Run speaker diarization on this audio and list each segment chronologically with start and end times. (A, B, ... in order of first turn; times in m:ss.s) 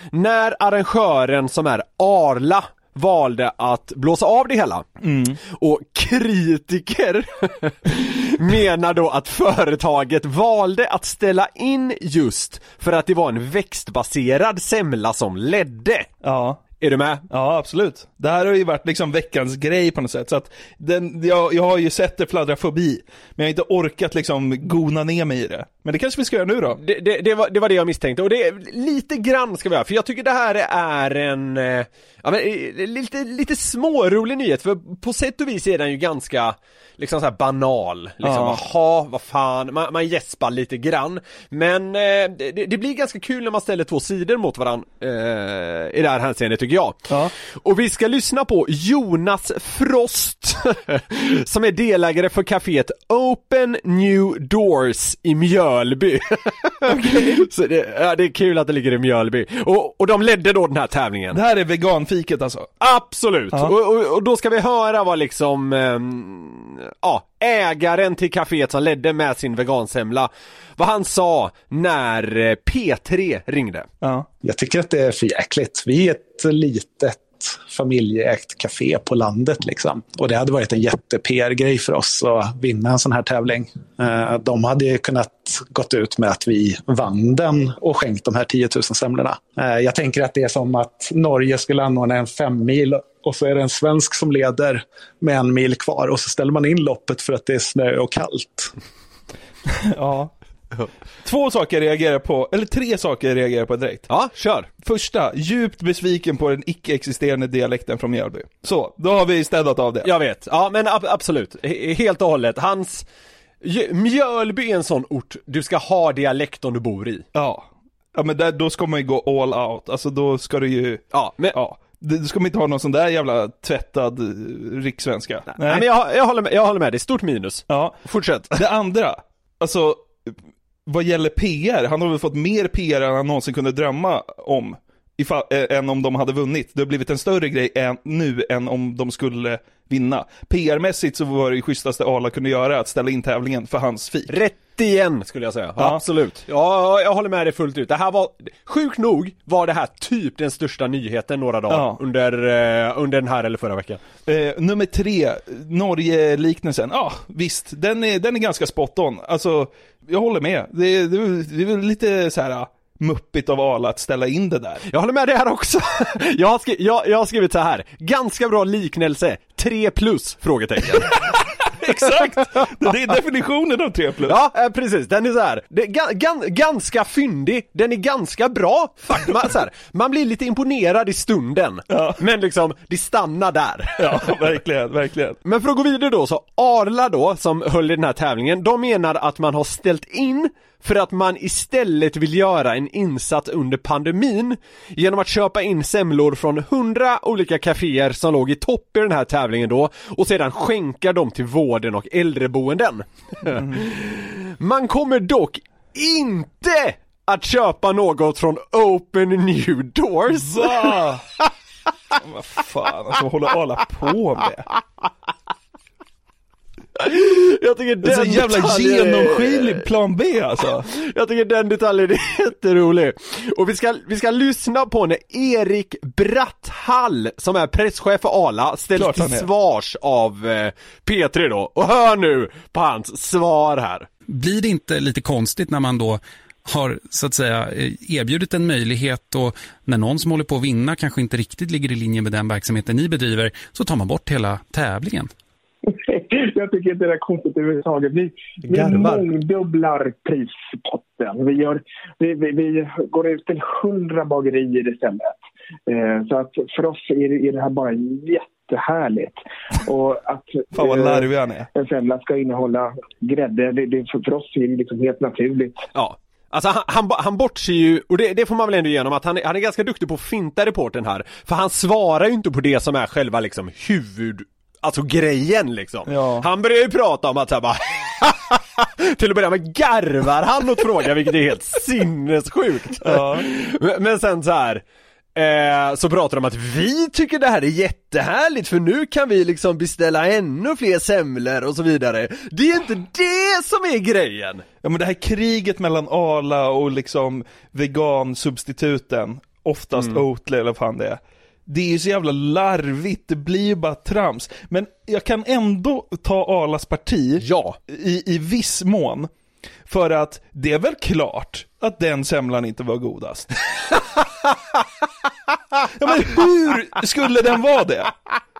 0:00.1-0:04.9 A
0:05.0-0:05.4 B
0:05.4-0:16.1 A
0:16.2-0:16.6 B
0:16.8-0:17.2 A
0:17.3-0:26.8 B
0:26.8-1:01.4 A
0:38.2-0:38.6 B
0:56.8-0:57.4 B
1:01.3-1:02.7 B
1:02.8-1:13.9 A
1:14.0-1:14.3 B
1:14.4-1:38.7 C
1:39.8-1:40.3 B
1:41.2-1:44.1 B
1:44.1-1:44.7 A
1:44.8-1:50.1 B
1:50.0-1:53.0 A
1:53.6-1:57.2 A
1:57.3-2:05.8 B
2:01.1-2:01.6 A
2:05.5-2:08.5 A
2:07.7-2:08.0 B
2:08.5-2:24.3 B
2:24.3-2:34.0 A
2:31.7-2:32.0 B
2:34.2-2:44.8 B
2:44.9-2:51.2 A
2:51.1-2:54.4 B
2:54.2-3:04.3 A
3:01.9-3:02.2 B
3:04.0-3:05.4 B
3:05.4-3:31.0 A
3:23.5-3:23.8 B
3:30.3-3:31.2 B
3:32.2-3:34.6 B
3:37.0-3:39.8 A
3:38.0-3:40.8 B
3:40.9-3:54.1 A
3:48.9-3:49.5 B
3:54.3-4:05.3 D
4:05.9-4:25.8 E
4:08.6-4:09.2 A
4:20.7-4:21.7 B
4:25.9-4:44.8 A
4:36.0-4:36.5 B
4:43.0-4:43.5 B
4:45.4-4:54.6 A
4:54.8-5:09.3 B
4:59.9-5:00.2 A
5:07.4-5:07.8 A
5:09.9-5:13.5 B
5:15.9-5:18.1 B